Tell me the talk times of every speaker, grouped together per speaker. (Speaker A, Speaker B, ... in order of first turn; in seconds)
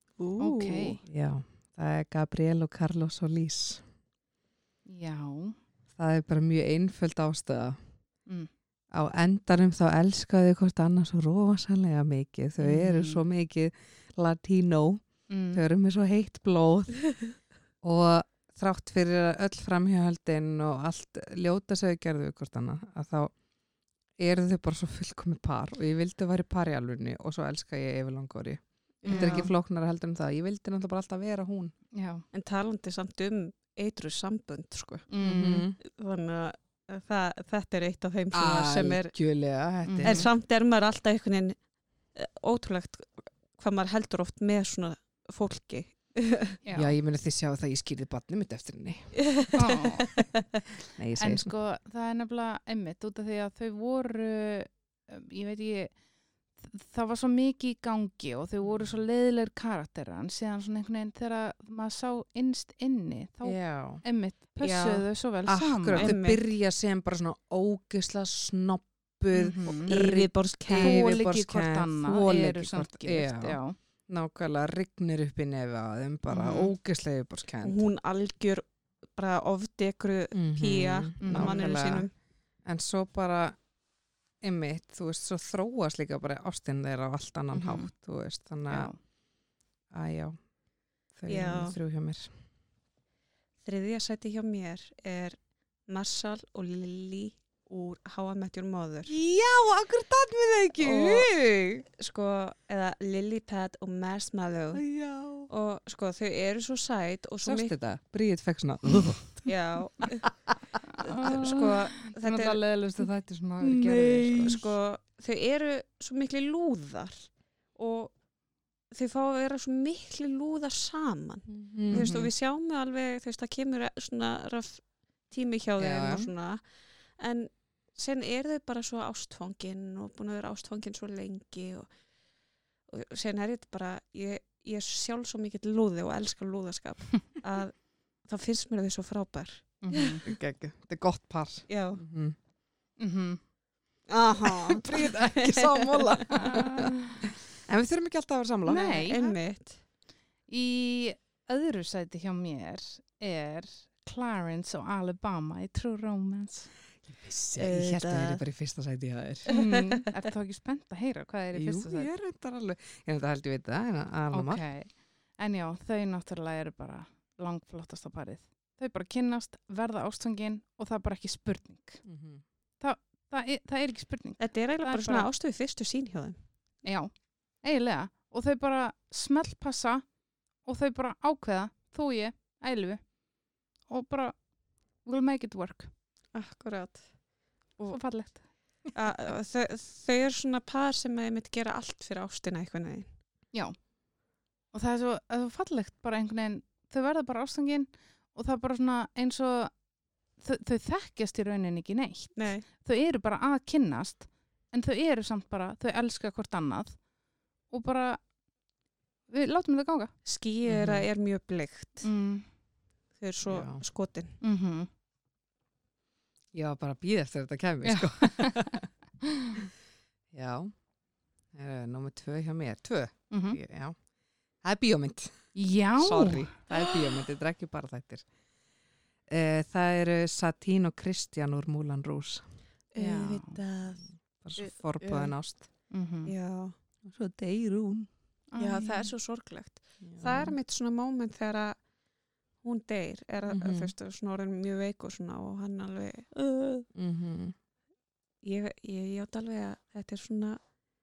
Speaker A: 0.2-1.0, 29.0-29.5, 32.3-35.1, 35.8-39.1, 40.0-41.6, 42.1-46.6, 49.2-50.2, 64.6-65.1, 66.0-66.4, 69.8-71.0, 76.3-76.7, 77.6-82.1, 91.3-91.8, 93.6-99.1, 100.8-101.3, 102.0-104.8, 105.5-107.7, 109.5-110.3, 111.0-112.6, 114.2-118.1, 118.9-126.6, 127.2-131.9, 132.9-140.2, 141.7-142.0, 144.1-146.3, 148.7-149.8, 157.6-158.4, 159.5-160.1, 174.4-176.4, 186.3-187.0, 188.9-193.1, 202.4-202.7, 210.2-212.1, 213.2-214.4, 232.9-234.0, 234.6-235.3, 236.3-236.8, 238.6-241.8, 242.6-246.9, 248.4-250.6
Speaker B: 0.4-1.0, 4.9-5.6, 12.6-13.2, 15.3-15.6, 29.1-29.5, 31.9-32.2, 35.1-35.7, 39.9-40.3, 46.6-46.9, 49.6-50.1, 51.2-55.9, 56.6-66.1, 69.3-70.0, 70.8-73.8, 81.2-81.6, 88.7-89.0, 110.9-114.5, 139.8-140.2, 143.0-143.4, 146.3-147.2, 148.7-149.2, 150.5-156.7, 159.5-162.1, 164.3-172.0, 172.8-175.3, 176.8-180.1, 180.7-183.0, 183.9-184.4, 185.1-185.9, 187.8-188.4, 194.7-199.7, 200.4-207.0, 207.7-208.2, 209.3-210.1, 212.0-212.5, 214.4-214.9, 217.8-219.6, 223.3-223.6, 225.6-226.5, 233.0-233.6, 235.9-236.3, 238.5-239.1
Speaker C: 1.1-3.8, 6.0-7.8, 8.9-17.0, 17.8-23.3, 24.2-31.7, 35.2-35.8, 38.3-40.3, 46.7-49.2, 51.0-51.5, 63.4-64.0, 65.5-77.8, 80.3-82.1, 82.7-83.6, 84.4-88.9, 89.9-90.4, 91.2-92.3, 99.1-101.9, 104.7-105.5, 107.4-109.5, 111.0-111.7, 113.0-114.6, 121.5-122.3, 125.8-126.3, 140.2-142.4, 144.4-149.3, 157.1-159.6, 161.5-164.6, 172.1-172.4, 210.7-211.1, 213.5-213.8, 216.5-218.9, 220.3-220.7, 221.5-224.0, 224.6-225.4, 226.0-228.2, 229.3-232.4, 234.4-235.7, 237.1-238.1, 240.0-240.6, 243.5-243.9, 246.9-247.6